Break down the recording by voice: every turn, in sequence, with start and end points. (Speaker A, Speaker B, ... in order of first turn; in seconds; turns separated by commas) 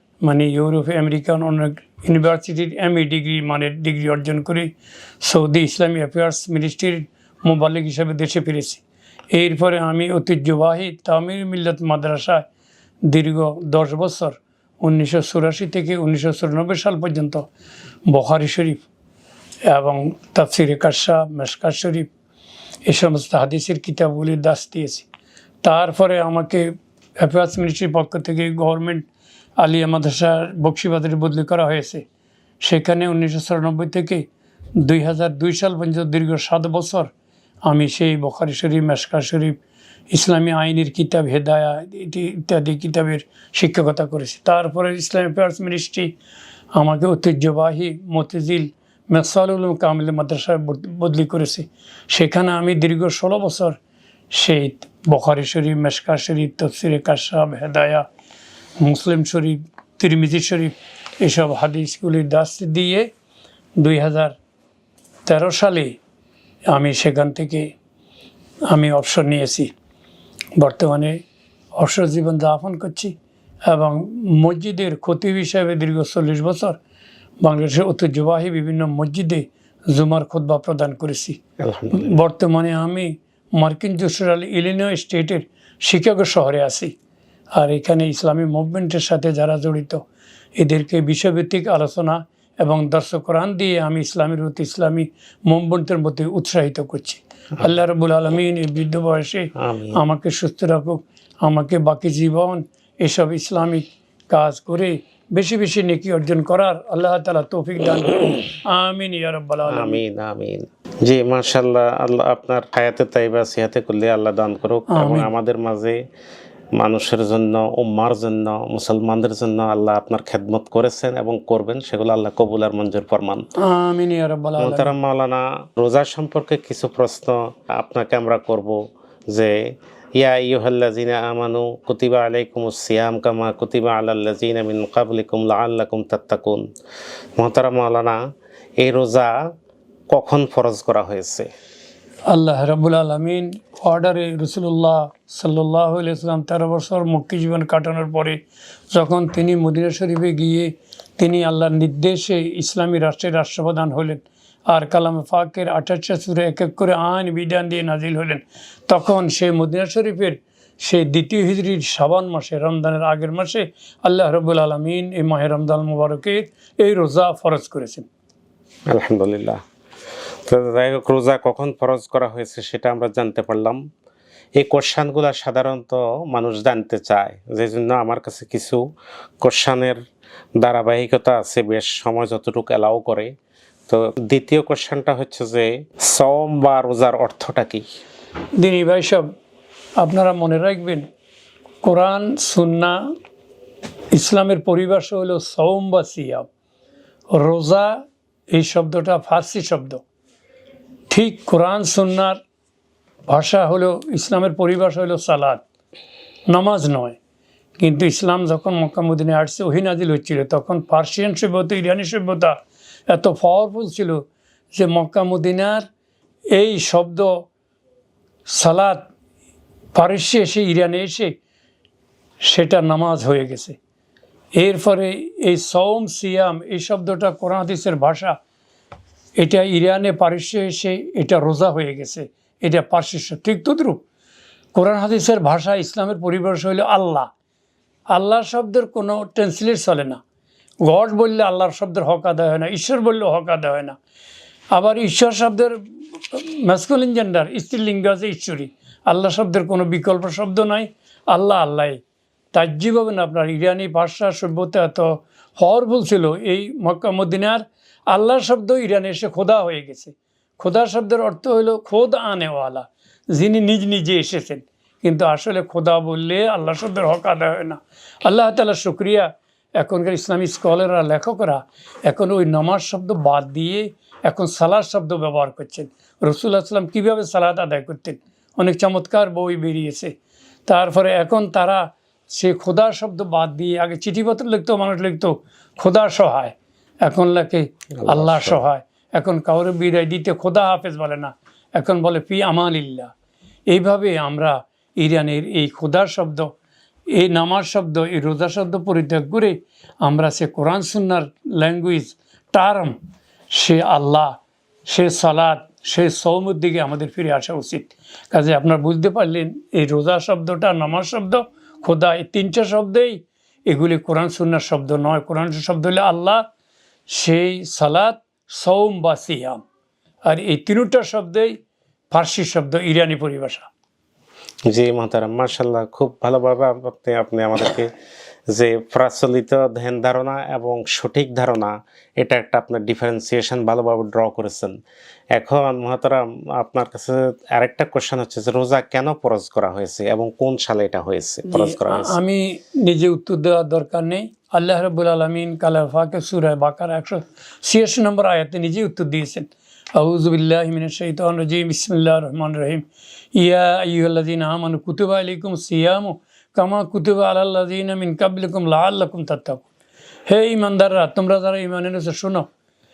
Speaker A: 0.2-12.4, Speaker A: 13.1-17.5, Speaker A: 18.1-18.9, Speaker A: 19.7-22.1, Speaker A: 22.9-25.1, Speaker A: 25.6-29.1, Speaker A: 29.6-32.0, Speaker A: 32.6-34.2, Speaker A: 34.8-37.1, Speaker A: 37.6-39.6, Speaker A: 40.1-46.1, Speaker A: 46.7-53.8, Speaker A: 54.3-58.0, Speaker A: 58.8-63.1, Speaker A: 63.8-64.3, Speaker A: 65.2-66.0, Speaker A: 66.7-67.7, Speaker A: 68.7-69.7, Speaker A: 70.5-71.2, Speaker A: 71.7-73.1, Speaker A: 73.7-76.8, Speaker A: 77.4-81.4, Speaker B: 81.6-82.2, Speaker A: 81.9-86.9, Speaker A: 87.5-90.0, Speaker A: 90.6-110.0, Speaker B: 99.6-100.0, Speaker B: 109.7-116.0, Speaker A: 114.9-115.3, Speaker B: 116.8-123.5, Speaker A: 123.6-124.9, Speaker B: 124.6-128.8, Speaker B: 129.3-129.6, Speaker B: 130.2-136.7, Speaker B: 137.4-138.2, Speaker B: 138.8-139.3, Speaker B: 140.1-141.5, Speaker A: 142.3-148.4, Speaker A: 148.9-168.1, Speaker B: 168.9-169.6, Speaker B: 170.5-173.8, Speaker B: 174.6-178.8, Speaker B: 179.4-180.0, Speaker B: 180.6-183.3, Speaker B: 183.9-187.8, Speaker A: 188.6-189.2, Speaker A: 190.0-191.1, Speaker A: 191.8-193.1, Speaker A: 194.1-196.5, Speaker A: 197.3-200.0, Speaker A: 201.1-202.4, Speaker A: 203.3-205.6, Speaker A: 206.5-207.2, Speaker A: 207.8-212.6, Speaker A: 213.1-215.8, Speaker A: 216.5-217.4, Speaker A: 218.4-219.1, Speaker A: 219.9-221.4, Speaker A: 222.4-223.8, Speaker A: 224.6-228.4, Speaker A: 229.4-234.0, Speaker A: 234.7-237.3, Speaker A: 238.1-240.2, Speaker A: 240.8-244.0, Speaker A: 244.7-245.8, Speaker A: 246.3-252.0, Speaker A: 252.5-293.1, Speaker B: 288.0-288.6, Speaker A: 293.7-296.5, Speaker A: 297.1-303.0, Speaker A: 303.5-316.4, Speaker A: 317.1-319.6, Speaker A: 320.2-321.6, Speaker A: 322.1-323.7, Speaker B: 324.7-327.9, Speaker B: 328.5-334.8, Speaker B: 335.4-342.1, Speaker A: 341.5-359.6, Speaker A: 360.3-362.5